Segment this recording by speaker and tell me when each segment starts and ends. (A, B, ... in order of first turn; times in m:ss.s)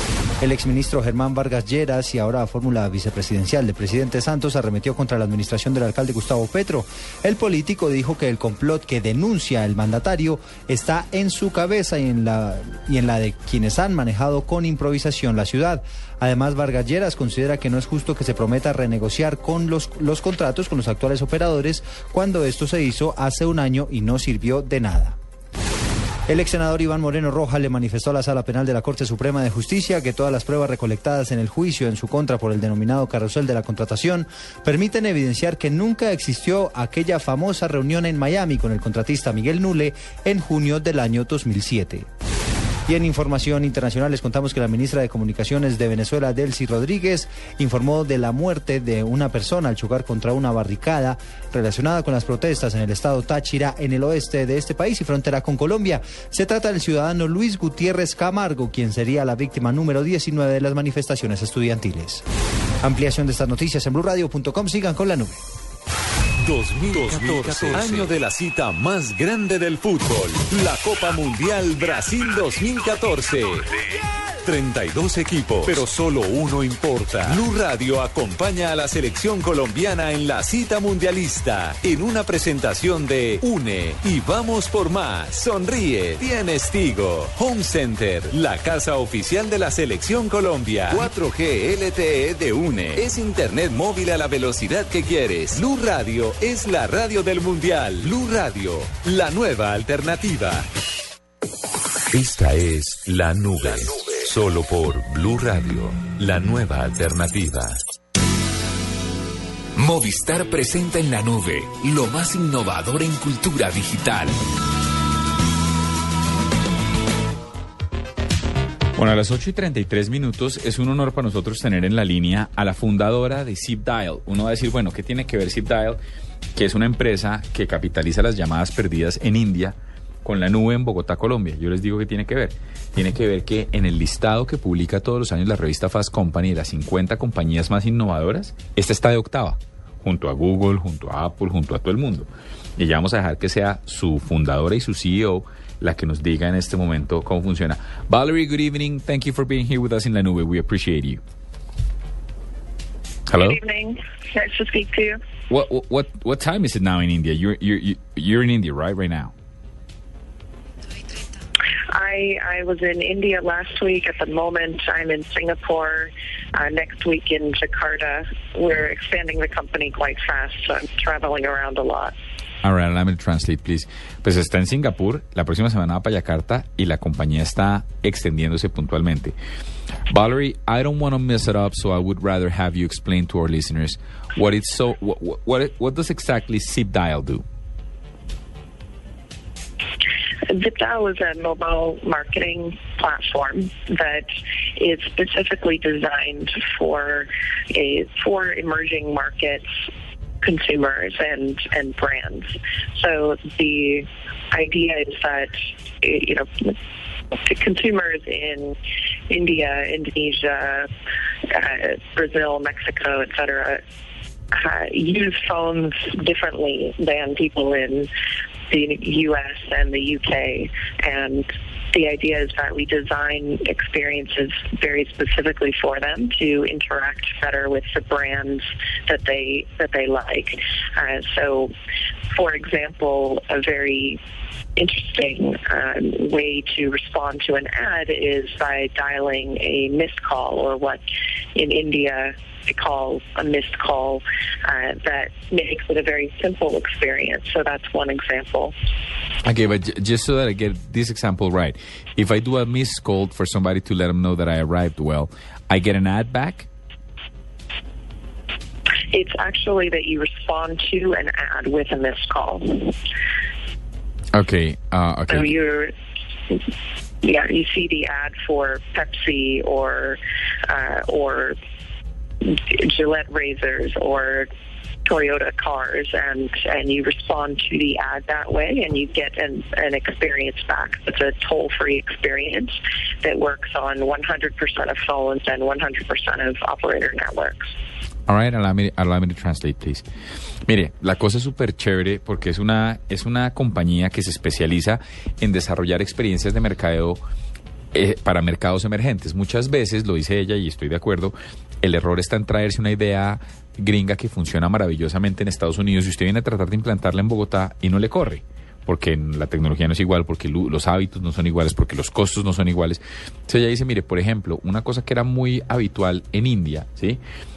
0:00.4-0:25.2 A
0:26.3-0:42.1 A
0:42.9-1:02.2 A
1:02.8-1:05.4 A
1:06.4-1:13.7 B
1:14.4-1:40.7 B
1:42.1-1:47.8 B
1:49.8-1:54.4 C
1:59.0-2:06.0 D
2:06.6-2:31.2 D
2:33.3-2:33.6 D
2:33.3-2:35.2 E
2:35.5-2:39.3 D
2:41.9-2:52.1 E
2:52.6-2:59.4 D
3:00.1-3:07.4 D
3:10.5-3:19.7 E
3:20.4-3:26.8 E
3:27.3-3:28.8 E
3:29.3-3:30.9 E
3:31.5-3:33.8 E
3:34.5-3:38.1 E
3:38.7-3:51.7 E
3:52.3-3:54.2 E
3:54.8-4:01.0 E
4:01.6-4:08.7 E
4:09.4-4:16.7 D
4:19.1-4:22.9 E
4:24.3-4:25.5 D
4:25.3-4:25.9 E
4:27.2-4:31.6 E
4:32.4-4:34.5 E
4:35.0-4:47.7 E
4:48.3-4:50.0 D
4:50.7-4:57.2 D
4:57.9-5:17.2 D